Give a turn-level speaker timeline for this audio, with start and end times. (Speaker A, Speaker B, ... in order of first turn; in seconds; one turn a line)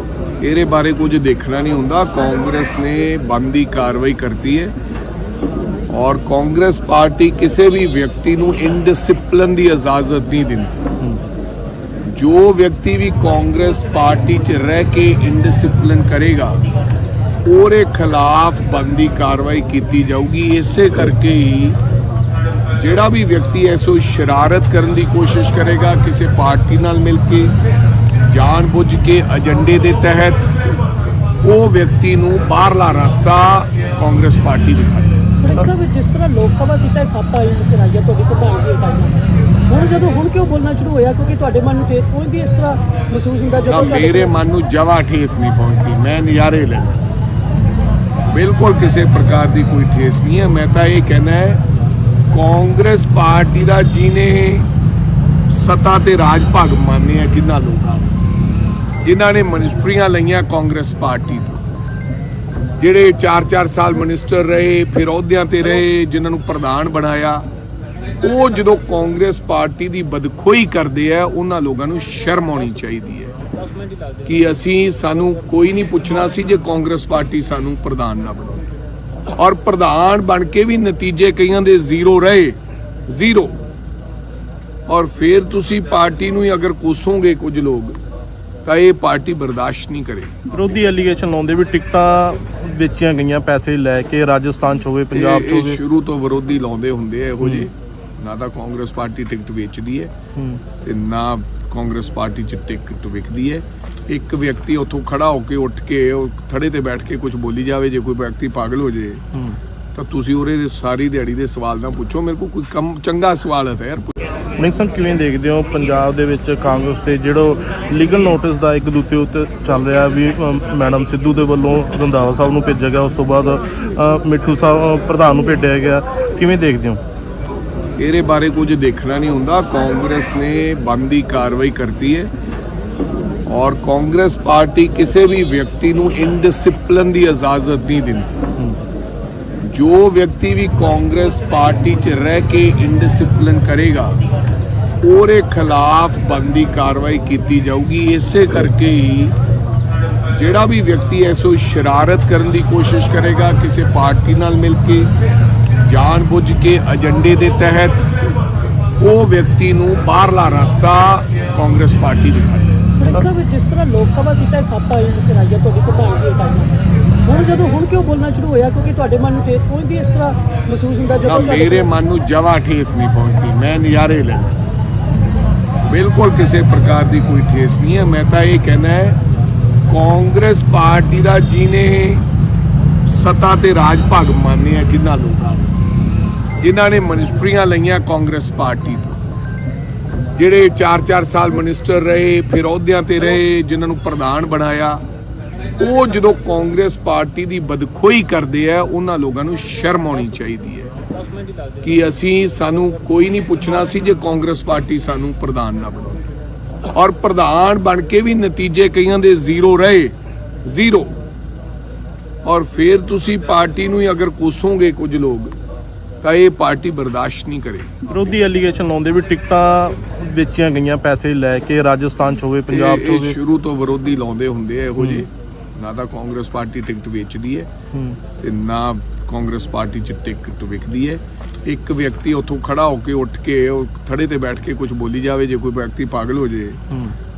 Speaker A: 0.4-4.7
Speaker A: 5.9-10.8
Speaker A: 12.1-16.6
Speaker A: 17.4-21.8
Speaker A: 22.8-27.6
Speaker A: 28.2-30.5
Speaker A: 31.4-35.2
Speaker B: 35.4-44.4
Speaker A: 43.7-47.0
Speaker A: 48.3-51.6
Speaker A: 52.3-54.7
Speaker A: 55.5-58.2
Speaker A: 59.0-61.6
Speaker A: 62.8-67.4
Speaker A: 68.2-73.3
Speaker A: 74.2-78.6
Speaker A: 79.3-82.6
Speaker A: 83.1-83.6
Speaker A: 84.9-88.0
Speaker A: 88.7-90.3
Speaker C: 90.5-95.8
Speaker A: 95.1-100.1
Speaker C: 97.4-97.7
Speaker C: 100.3-100.6
Speaker A: 100.8-109.2
Speaker A: 109.9-114.2
Speaker C: 114.6-127.0
Speaker A: 128.0-132.3
Speaker A: 133.5-138.3
Speaker A: 139.6-144.2
Speaker A: 145.0-149.3
Speaker A: 150.3-155.1
Speaker A: 155.8-158.1
Speaker A: 159.0-162.8
Speaker B: 163.0-171.9
Speaker A: 171.2-174.5
Speaker A: 175.8-179.2
Speaker A: 179.9-182.2
Speaker A: 183.1-185.8
Speaker A: 186.6-189.2
Speaker A: 190.3-195.0
Speaker A: 195.8-200.9
Speaker A: 201.8-206.2
Speaker A: 206.9-210.1
Speaker A: 210.6-211.2
Speaker A: 212.4-215.5
Speaker A: 216.2-217.9
Speaker C: 218.1-223.3
Speaker A: 222.7-227.7
Speaker C: 225.0-225.2
Speaker C: 227.9-228.2
Speaker A: 228.4-236.8
Speaker C: 236.9-237.1